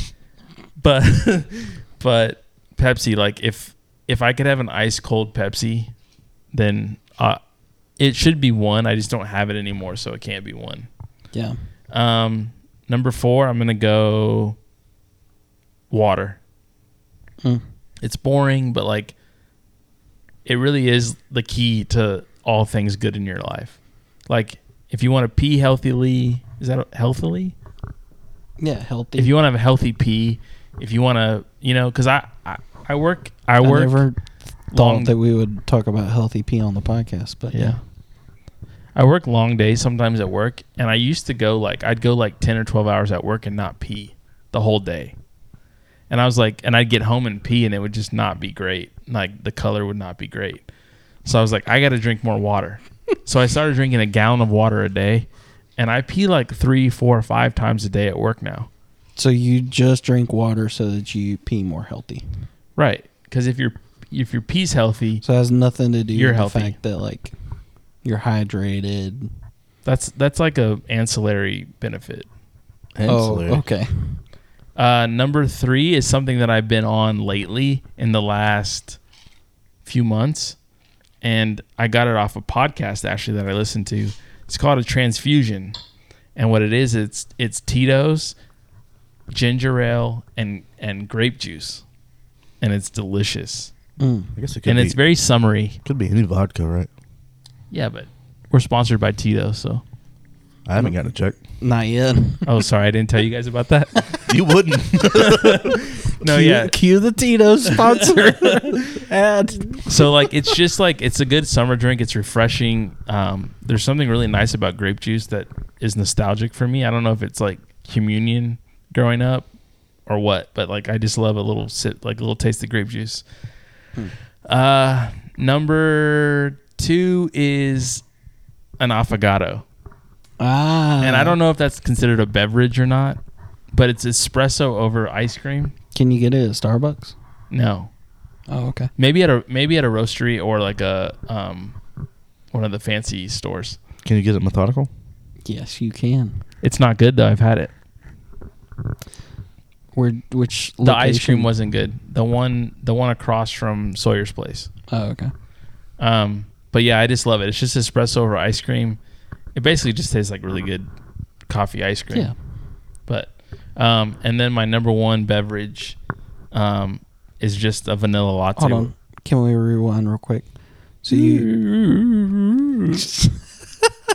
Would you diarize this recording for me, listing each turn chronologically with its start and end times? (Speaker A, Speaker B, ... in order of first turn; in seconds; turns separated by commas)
Speaker A: 0.8-5.9, Speaker A: 6.5-7.4, Speaker A: 8.0-10.9, Speaker B: 11.3-11.6, Speaker A: 11.9-14.6, Speaker A: 15.9-16.4, Speaker A: 18.0-19.1, Speaker A: 20.4-23.8, Speaker A: 24.3-27.6, Speaker B: 28.6-29.3, Speaker A: 29.2-34.1, Speaker B: 33.6-34.2, Speaker A: 34.7-35.1, Speaker B: 34.7-37.8, Speaker A: 37.5-37.8, Speaker A: 39.0-45.1, Speaker A: 46.1-50.6, Speaker A: 51.2-58.7, Speaker B: 59.2-62.2, Speaker A: 62.8-65.2, Speaker B: 65.2-67.3, Speaker A: 66.1-66.8, Speaker B: 68.0-69.3, Speaker A: 69.8-72.3, Speaker C: 73.0-73.6, Speaker B: 73.1-74.2, Speaker A: 74.8-79.0, Speaker A: 79.8-80.6, Speaker A: 81.2-85.8, Speaker A: 86.4-88.3, Speaker A: 89.3-91.8, Speaker A: 92.6-93.7, Speaker B: 94.0-94.3, Speaker C: 94.4-95.0, Speaker A: 94.7-95.8, Speaker C: 95.8-96.9, Speaker A: 97.7-99.8, Speaker C: 100.7-101.4, Speaker B: 101.6-102.5, Speaker A: 102.5-104.3, Speaker C: 104.3-105.8, Speaker A: 105.0-106.8, Speaker B: 106.2-110.1, Speaker A: 107.8-108.8, Speaker A: 109.9-119.5, Speaker A: 120.1-123.2, Speaker A: 124.5-128.0, Speaker A: 128.8-129.7, Speaker B: 130.4-131.4, Speaker A: 131.0-133.2, Speaker A: 133.7-135.7, Speaker B: 135.9-137.1, Speaker A: 137.5-137.9, Speaker B: 138.5-138.9, Speaker A: 139.0-141.8, Speaker A: 142.5-143.8, Speaker C: 144.0-144.9, Speaker B: 145.4-146.4, Speaker A: 146.6-147.7, Speaker B: 149.9-151.5, Speaker A: 150.8-154.7, Speaker B: 154.9-155.3, Speaker A: 156.0-159.0, Speaker A: 159.6-160.9, Speaker A: 161.5-162.3, Speaker A: 163.1-166.0, Speaker A: 166.5-168.9, Speaker B: 168.6-170.5, Speaker B: 171.0-171.5, Speaker A: 171.1-172.7, Speaker B: 172.9-173.9